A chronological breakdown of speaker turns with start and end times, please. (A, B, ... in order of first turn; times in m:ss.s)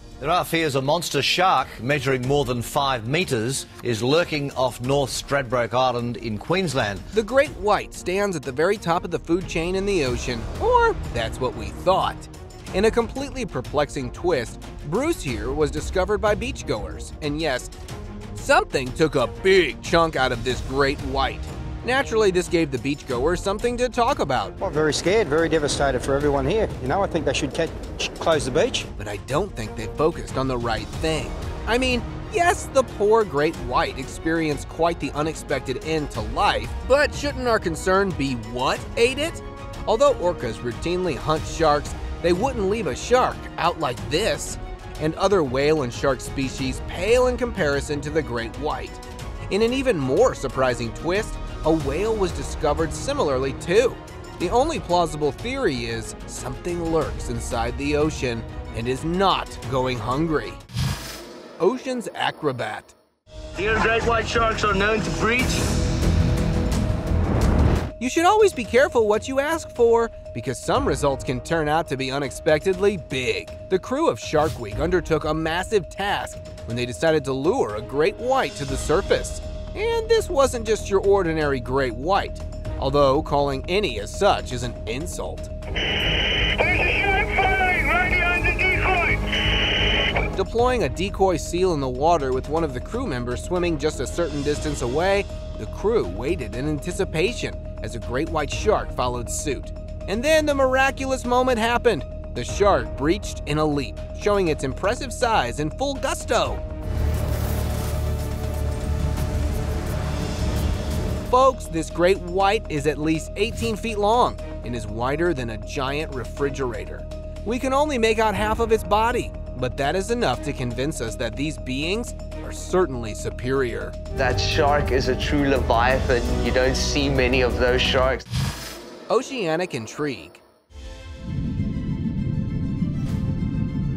0:00.2-0:07.1 A
0:07.1-0:17.7 B
0:18.4-0:24.6 B
0:24.6-0:28.9 C
0:29.0-1:00.6 B
1:01.6-1:02.9 B
1:03.6-1:05.5 D
1:08.0-1:25.5 B
1:30.3-1:46.6 B
1:51.3-2:04.0 B
2:04.2-2:08.3 E
2:09.1-2:10.4 B